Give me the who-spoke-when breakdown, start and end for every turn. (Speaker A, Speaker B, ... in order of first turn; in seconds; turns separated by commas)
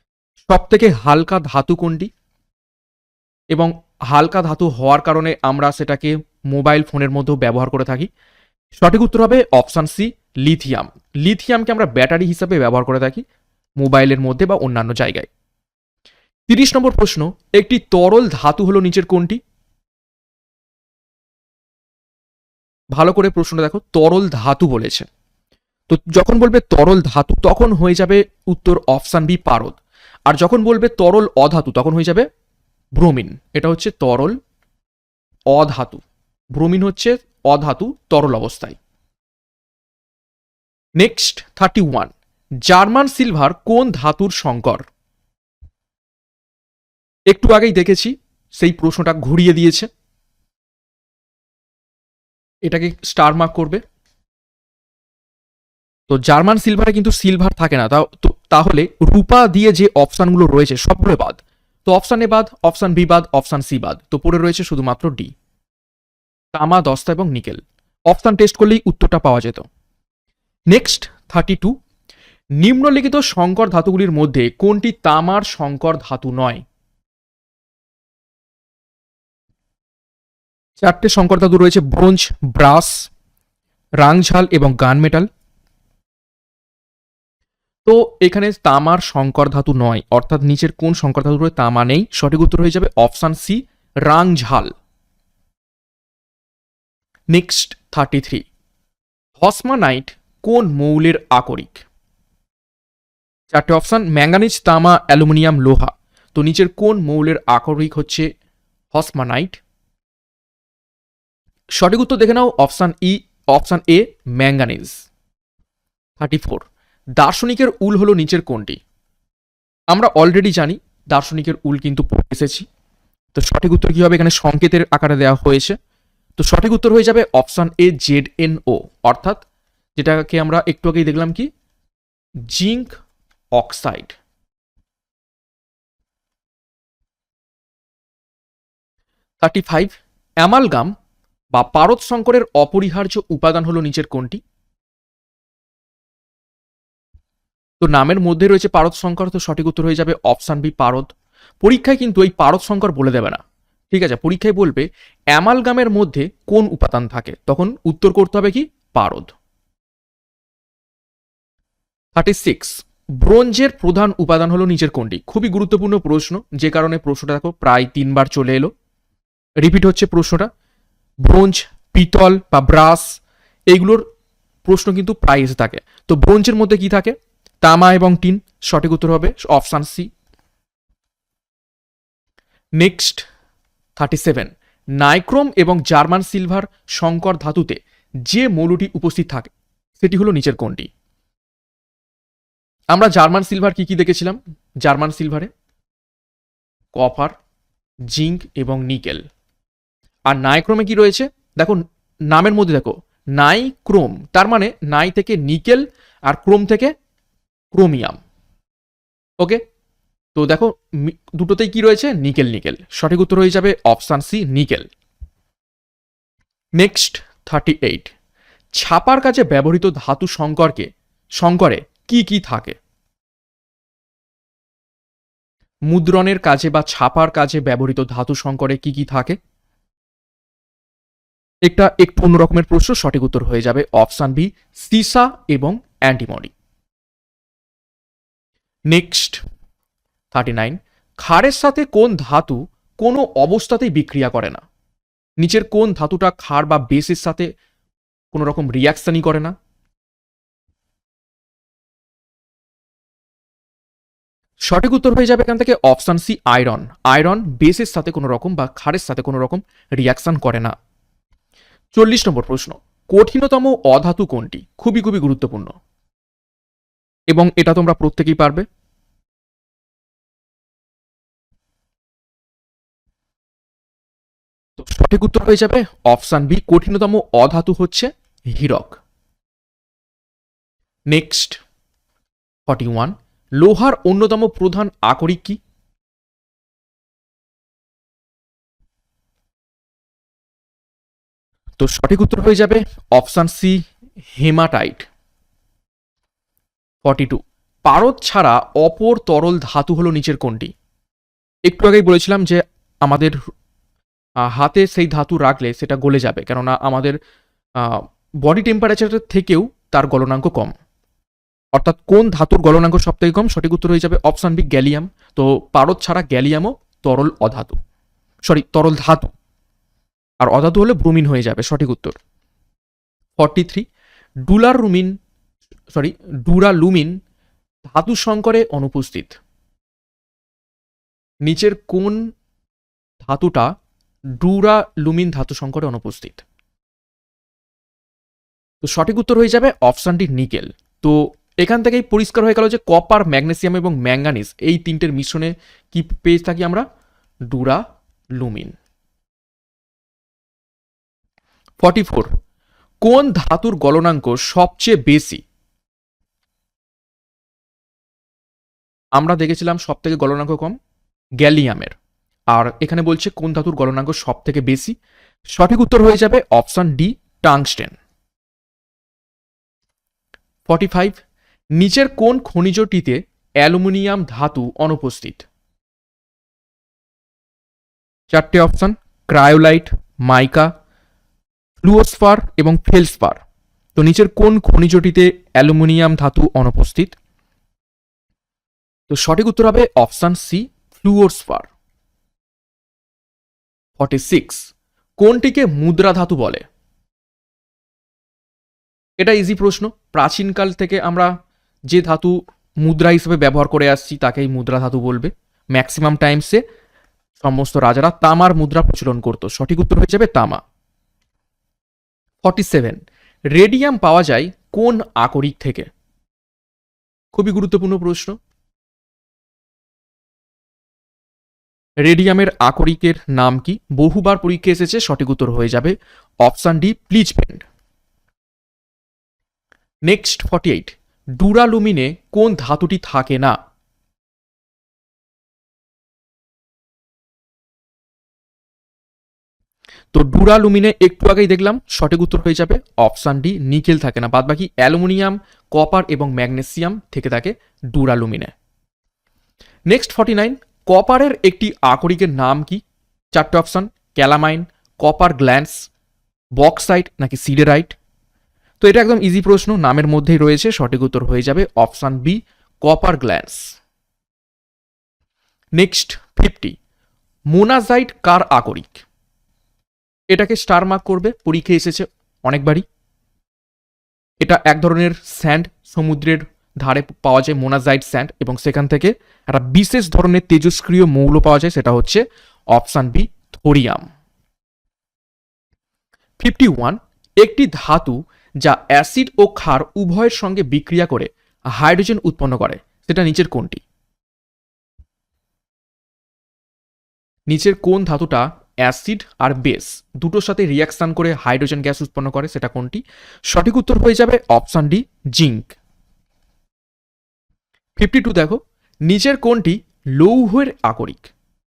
Speaker A: 0.5-2.1, Speaker A: 3.5-8.1, Speaker A: 8.8-13.2, Speaker A: 13.8-15.3, Speaker A: 16.5-19.4, Speaker A: 22.9-25.1, Speaker A: 25.9-29.8, Speaker A: 30.3-32.3, Speaker A: 33.0-34.4, Speaker A: 35.5-36.0, Speaker A: 36.5-38.8, Speaker A: 41.0-42.1, Speaker A: 42.6-44.9, Speaker A: 47.3-49.9, Speaker A: 52.6-53.8, Speaker A: 56.1-65.3, Speaker A: 66.5-69.7, Speaker A: 70.7-71.7, Speaker A: 72.6-76.6, Speaker A: 80.8-83.1, Speaker A: 84.0-85.3, Speaker A: 87.9-94.7, Speaker A: 97.3-98.5, Speaker A: 99.4-101.8, Speaker A: 103.5-108.3, Speaker A: 108.9-109.6, Speaker A: 111.8-115.0, Speaker A: 116.2-116.7, Speaker A: 117.2-118.8, Speaker A: 119.9-122.7, Speaker A: 123.3-125.8, Speaker A: 126.4-129.4, Speaker A: 130.0-131.5, Speaker A: 132.5-132.9, Speaker A: 133.6-134.2, Speaker A: 139.4-140.9, Speaker A: 141.5-144.4, Speaker A: 147.8-151.1, Speaker A: 151.6-159.3, Speaker A: 162.2-168.7, Speaker A: 169.6-170.5, Speaker A: 171.2-173.2, Speaker A: 173.7-174.1, Speaker A: 174.7-180.1, Speaker A: 182.8-183.2, Speaker A: 184.0-190.9, Speaker A: 192.9-195.5, Speaker A: 196.9-197.3, Speaker A: 198.1-199.2, Speaker A: 200.3-206.9, Speaker A: 207.7-208.2, Speaker A: 210.3-214.9, Speaker A: 216.8-218.1, Speaker A: 218.8-222.8, Speaker A: 225.9-229.4, Speaker A: 231.7-236.5, Speaker A: 238.9-239.4, Speaker A: 240.3-244.6, Speaker A: 245.4-247.5, Speaker A: 248.3-249.5, Speaker A: 254.7-260.7, Speaker A: 261.9-265.7, Speaker A: 267.3-268.6, Speaker A: 274.8-279.0, Speaker A: 281.1-281.6, Speaker A: 282.7-285.6, Speaker A: 291.8-293.8, Speaker A: 294.4-295.1, Speaker A: 297.0-300.7, Speaker A: 301.7-303.4, Speaker A: 304.4-307.2, Speaker A: 307.8-310.7, Speaker A: 311.7-317.8, Speaker A: 318.4-319.3, Speaker A: 320.4-322.2, Speaker A: 323.4-323.9, Speaker A: 324.5-325.2, Speaker A: 325.9-327.2, Speaker A: 327.9-329.4, Speaker A: 331.4-332.2, Speaker A: 333.2-333.7, Speaker A: 334.4-336.4, Speaker A: 338.8-346.9, Speaker A: 347.5-347.8, Speaker A: 348.4-348.8, Speaker A: 351.8-352.3, Speaker A: 353.0-355.4, Speaker A: 359.1-360.8, Speaker A: 361.4-361.9, Speaker A: 362.5-364.9, Speaker A: 365.5-367.9, Speaker A: 370.7-371.2, Speaker A: 371.8-375.4, Speaker A: 378.3-380.7, Speaker A: 381.8-383.4, Speaker A: 383.9-387.2, Speaker A: 389.1-391.7, Speaker A: 394.0-396.6, Speaker A: 399.2-401.3, Speaker A: 401.9-406.6, Speaker A: 407.4-410.6, Speaker A: 412.4-415.9, Speaker A: 417.3-418.4, Speaker A: 422.0-427.6, Speaker A: 430.1-433.6, Speaker A: 440.1-448.5, Speaker A: 449.9-455.9, Speaker A: 456.6-458.0, Speaker A: 458.8-463.8, Speaker A: 465.8-466.8, Speaker A: 467.5-469.0, Speaker A: 470.3-472.8, Speaker A: 474.4-482.2, Speaker A: 482.7-484.1, Speaker A: 486.4-493.8, Speaker A: 497.5-505.7, Speaker A: 508.0-511.3